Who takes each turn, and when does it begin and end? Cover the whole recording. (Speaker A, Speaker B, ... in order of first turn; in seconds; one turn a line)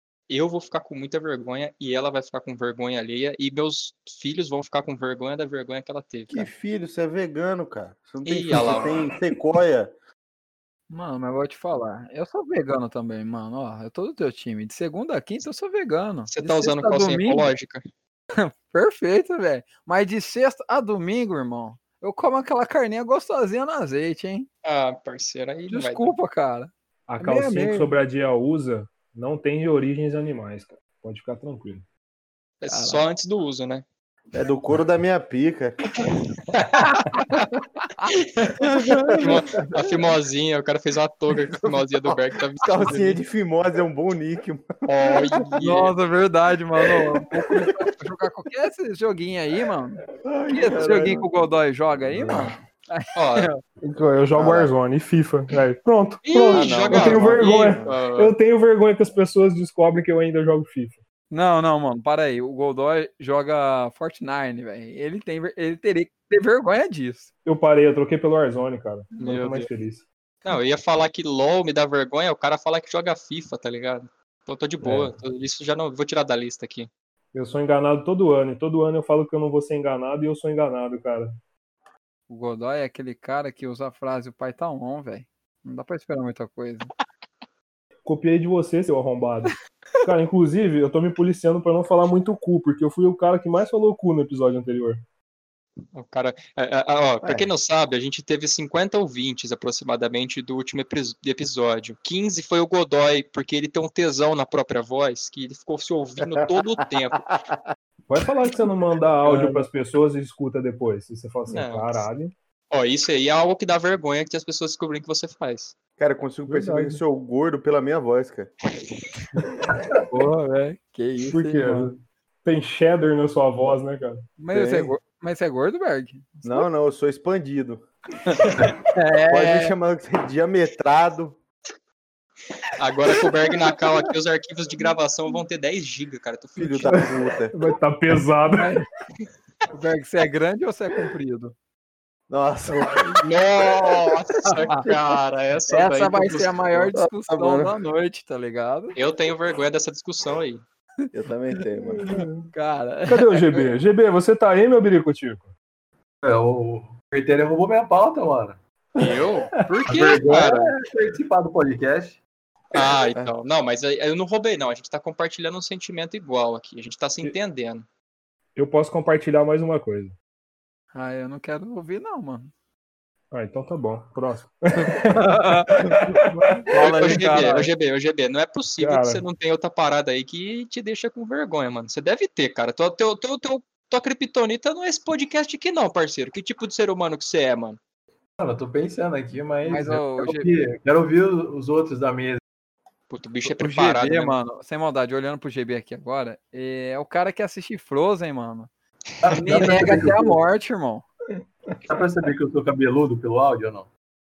Speaker A: 0.3-6.5
Speaker B: 6.3-9.9
Speaker A: 8.2-9.0
Speaker C: 10.9-17.5
Speaker A: 16.3-17.8
Speaker C: 18.3-24.5
Speaker A: 24.6-26.1
Speaker C: 25.7-27.9
Speaker D: 27.1-31.8
Speaker A: 32.6-33.8
Speaker C: 32.7-33.0
Speaker B: 34.3-36.0
Speaker A: 36.2-36.8
Speaker C: 36.7-37.3
Speaker C: 37.9-39.7
Speaker A: 38.4-43.2
Speaker B: 42.1-45.5
Speaker A: 44.9-45.9
Speaker C: 45.6-53.5
Speaker B: 50.2-51.3
Speaker A: 53.1-53.5
Speaker D: 53.8-61.0
Speaker B: 54.4-54.7
Speaker A: 56.2-58.3
Speaker B: 56.5-58.0
Speaker C: 61.3-67.3
Speaker D: 67.4-70.0
Speaker A: 69.2-69.7
Speaker A: 70.4-76.9
Speaker D: 74.8-75.1
Speaker D: 77.3-81.3
Speaker C: 82.3-86.9
Speaker D: 88.0-95.0
Speaker A: 95.9-107.3
Speaker B: 97.2-97.5
Speaker B: 107.3-107.6
Speaker D: 108.1-112.3
Speaker A: 111.5-112.1
Speaker A: 112.7-115.7
Speaker B: 116.0-118.5
Speaker D: 116.5-117.0
Speaker C: 120.1-121.9
Speaker D: 121.2-124.2
Speaker C: 124.4-126.6
Speaker B: 124.5-124.9
Speaker B: 126.4-127.8
Speaker C: 128.8-129.7
Speaker B: 129.3-131.4
Speaker A: 132.8-137.1
Speaker B: 136.6-137.6
Speaker D: 137.5-138.8
Speaker C: 138.6-138.8
Speaker C: 139.7-141.5
Speaker B: 142.3-144.2
Speaker A: 143.2-146.8
Speaker C: 144.4-144.9
Speaker C: 145.7-148.9
Speaker B: 146.9-147.7
Speaker A: 148.9-150.6
Speaker B: 151.1-152.1
Speaker D: 152.0-152.4
Speaker C: 152.5-153.6
Speaker D: 153.1-155.5
Speaker E: 156.2-158.6
Speaker A: 159.0-160.7
Speaker E: 159.8-162.2
Speaker A: 162.7-167.8
Speaker D: 168.6-170.1
Speaker C: 170.9-172.5
Speaker D: 173.3-176.7
Speaker C: 174.8-176.0
Speaker C: 176.7-177.7
Speaker A: 176.7-187.8
Speaker D: 178.8-179.2
Speaker E: 188.4-192.4
Speaker C: 189.6-190.5
Speaker A: 193.1-194.4
Speaker C: 193.4-198.7
Speaker E: 199.2-200.4
Speaker C: 199.3-201.0
Speaker E: 201.8-203.9